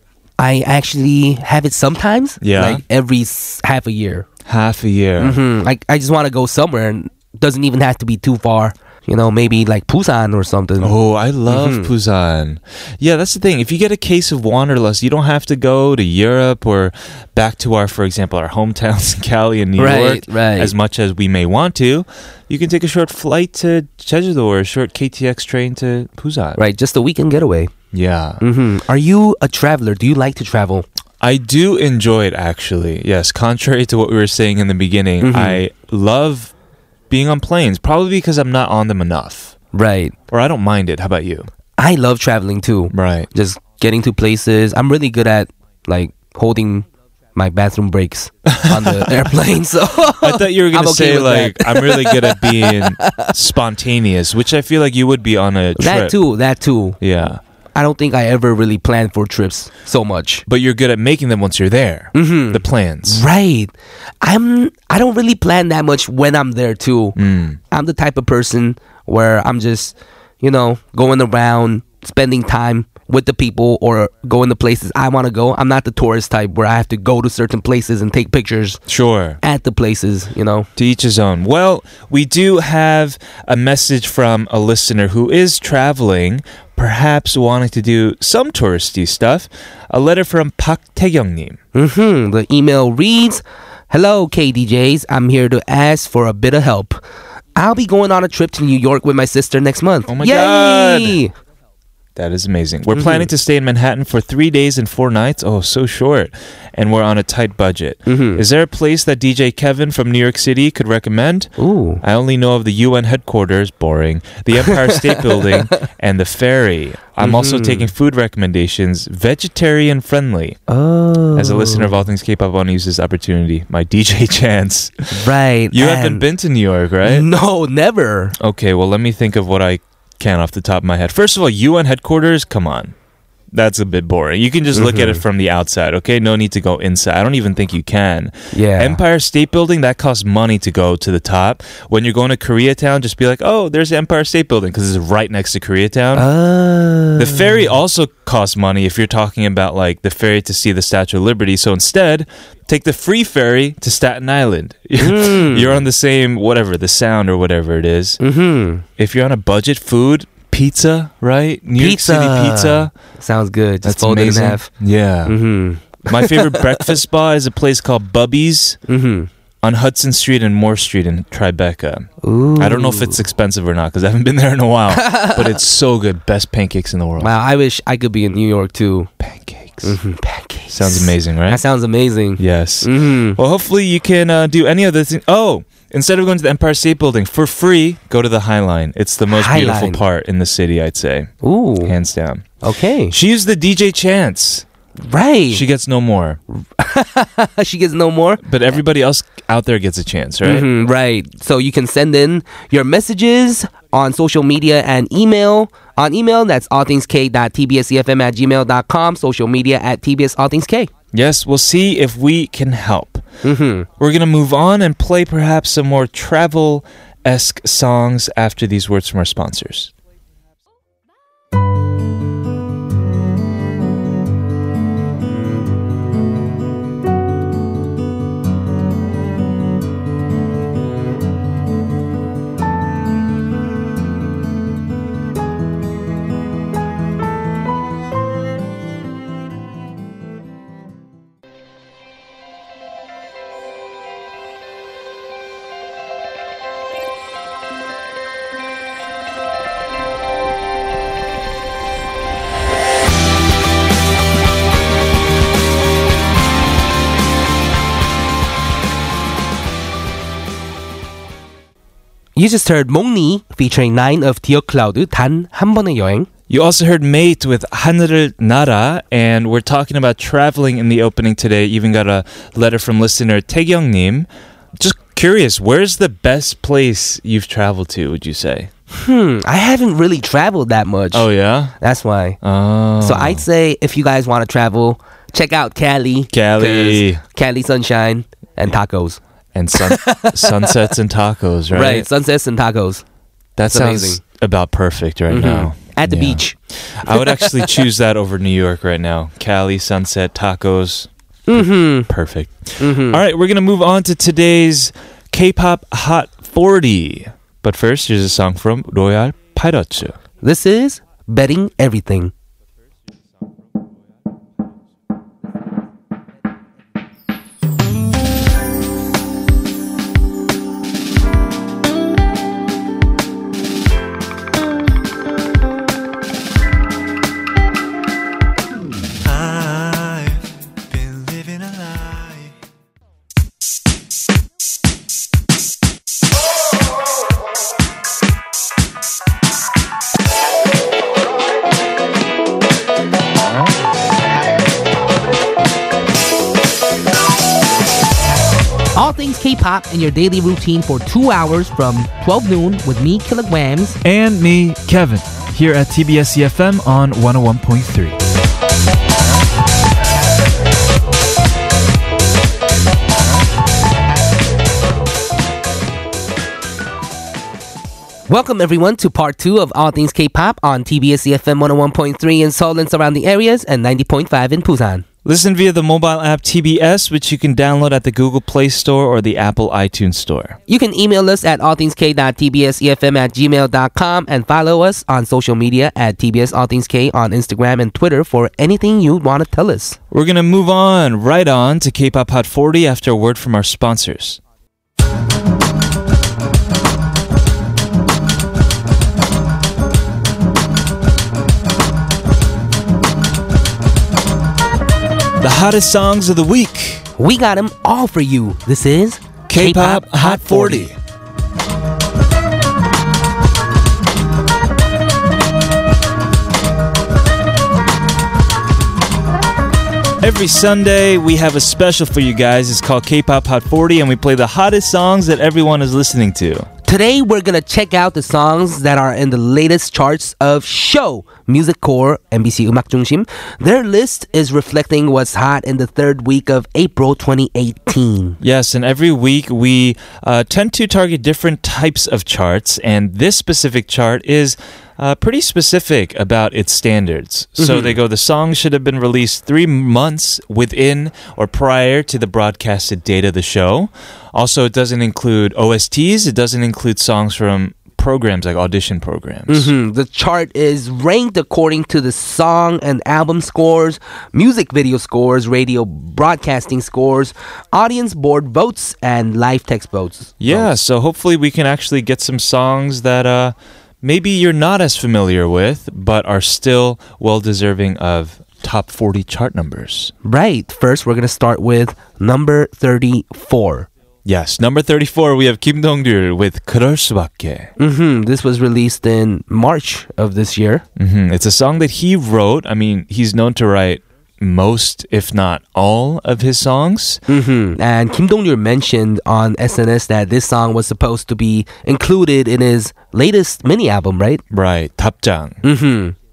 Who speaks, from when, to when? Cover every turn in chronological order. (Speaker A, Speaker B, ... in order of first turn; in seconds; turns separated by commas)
Speaker A: 0.4-4.3, Speaker B: 2.4-2.8, Speaker B: 4.5-5.4, Speaker A: 5.2-10.9, Speaker B: 10.8-26.6, Speaker A: 11.5-11.9, Speaker A: 19.8-20.7, Speaker A: 26.6-27.7, Speaker B: 27.9-28.4, Speaker A: 28.4-30.9, Speaker B: 31.2-36.5, Speaker A: 35.2-35.6, Speaker B: 37.1-39.5, Speaker A: 39.7-40.1, Speaker B: 40.3-41.5, Speaker A: 41.8-53.3, Speaker B: 42.9-43.3, Speaker B: 48.5-49.3, Speaker B: 50.2-56.2, Speaker A: 55.8-57.0, Speaker B: 57.0-57.4, Speaker A: 57.8-60.5, Speaker B: 60.5-63.2, Speaker A: 62.1-67.2, Speaker B: 67.2-67.6, Speaker A: 67.7-78.8, Speaker B: 78.9-79.4, Speaker A: 79.4-80.7, Speaker B: 80.8-91.6, Speaker A: 91.7-97.0, Speaker A: 97.6-101.3, Speaker B: 100.1-101.2, Speaker B: 102.2-120.6, Speaker A: 102.9-103.3, Speaker A: 108.1-108.4, Speaker A: 111.6-112.0, Speaker A: 114.7-115.5, Speaker A: 117.2-117.9, Speaker A: 120.7-122.0, Speaker B: 121.3-125.2, Speaker A: 125.1-126.2, Speaker B: 125.7-127.3, Speaker A: 127.0-128.4, Speaker B: 128.4-132.9, Speaker B: 133.5-146.3, Speaker A: 134.7-135.2, Speaker A: 138.5-139.0, Speaker A: 146.1-147.6, Speaker B: 147.2-158.2, Speaker A: 155.0-155.8, Speaker A: 158.2-158.8, Speaker B: 159.0-162.9, Speaker A: 161.8-164.7, Speaker B: 163.8-165.4, Speaker A: 165.3-166.9, Speaker B: 166.1-168.8, Speaker A: 168.9-169.3, Speaker B: 169.6-177.3, Speaker A: 172.2-173.2, Speaker A: 174.9-175.6, Speaker A: 177.2-179.1, Speaker B: 179.2-180.0, Speaker A: 179.8-183.4, Speaker B: 180.7-181.6, Speaker B: 182.4-191.3, Speaker A: 189.3-190.0, Speaker A: 191.4-191.9, Speaker B: 191.8-192.5, Speaker A: 192.6-193.1, Speaker B: 193.1-194.7, Speaker A: 195.0-195.6, Speaker B: 195.5-196.4, Speaker A: 196.5-198.4, Speaker B: 198.4-200.7, Speaker A: 200.4-210.9, Speaker B: 211.1-213.2, Speaker A: 213.4-213.9, Speaker B: 214.0-219.9, Speaker A: 262.4-266.3, Speaker B: 266.5-278.7, Speaker A: 278.9-281.3, Speaker B: 281.1-281.8, Speaker A: 281.8-282.4, Speaker B: 282.4-283.4, Speaker A: 283.0-289.2, Speaker B: 286.3-287.2, Speaker B: 289.5-292.1, Speaker A: 289.8-290.8, Speaker A: 291.7-293.0, Speaker B: 293.6-310.2, Speaker A: 293.7-294.2, Speaker A: 295.3-296.6, Speaker A: 297.1-297.8, Speaker A: 301.5-302.1, Speaker A: 302.8-303.2, Speaker A: 310.4-312.3, Speaker C: 329.2-332.5, Speaker A: 349.0-354.0, Speaker B: 354.0-358.2, Speaker A: 368.3-375.1, Speaker B: 375.2-380.6, Speaker A: 380.7-390.0, Speaker B: 390.1-394.4, Speaker B: 405.4-407.1, Speaker A: 407.2-410.9, Speaker B: 409.5-411.0, Speaker B: 420.2-426.7, Speaker A: 426.9-438.4, Speaker B: 438.4-459.7, Speaker A: 447.6-447.9, Speaker A: 459.5-470.7, Speaker B: 470.4-480.1, Speaker A: 480.2-483.9, Speaker B: 484.2-487.7, Speaker A: 487.8-490.8, Speaker B: 491.0-497.2, Speaker A: 497.3-504.4, Speaker B: 504.5-505.6, Speaker A: 505.6-506.1